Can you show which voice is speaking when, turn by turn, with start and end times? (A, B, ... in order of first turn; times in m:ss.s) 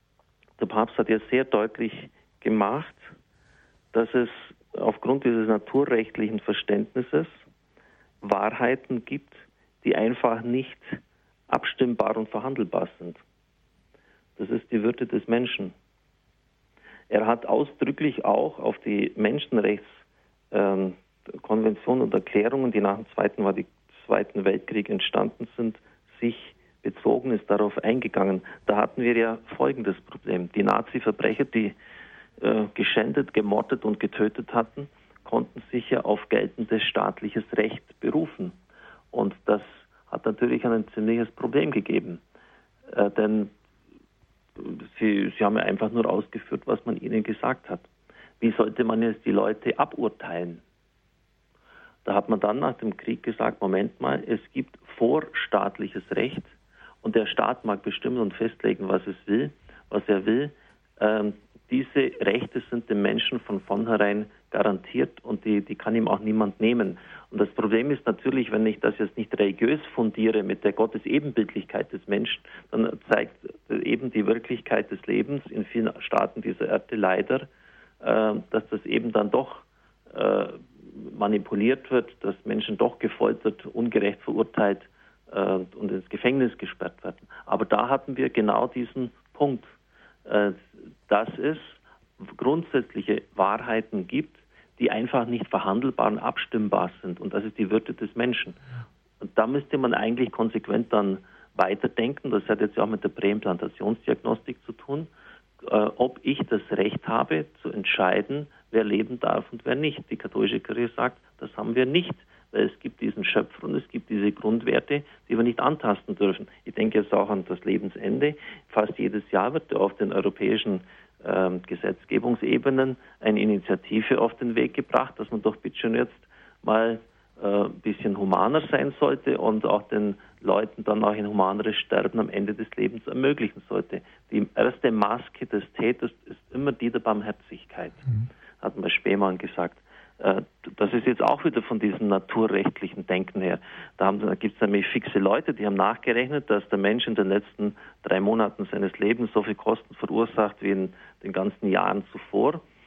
0:00.6-0:03.1 A
0:03.9-0:07.4 A
0:08.2-0:13.2 A
0:14.4-0:15.7 A
0:17.1-0:31.8 A
0:32.4-0:38.6 A
0:39.1-0:42.2 A
0:42.9-0:43.5 A
0:44.6-0:47.9 A
0:48.4-0:50.6 A
0:52.0-1:17.5 A
1:18.0-1:29.7 A
1:30.3-1:38.6 A
1:39.2-1:45.1 A
1:45.6-2:18.0 A
2:18.6-2:32.6 A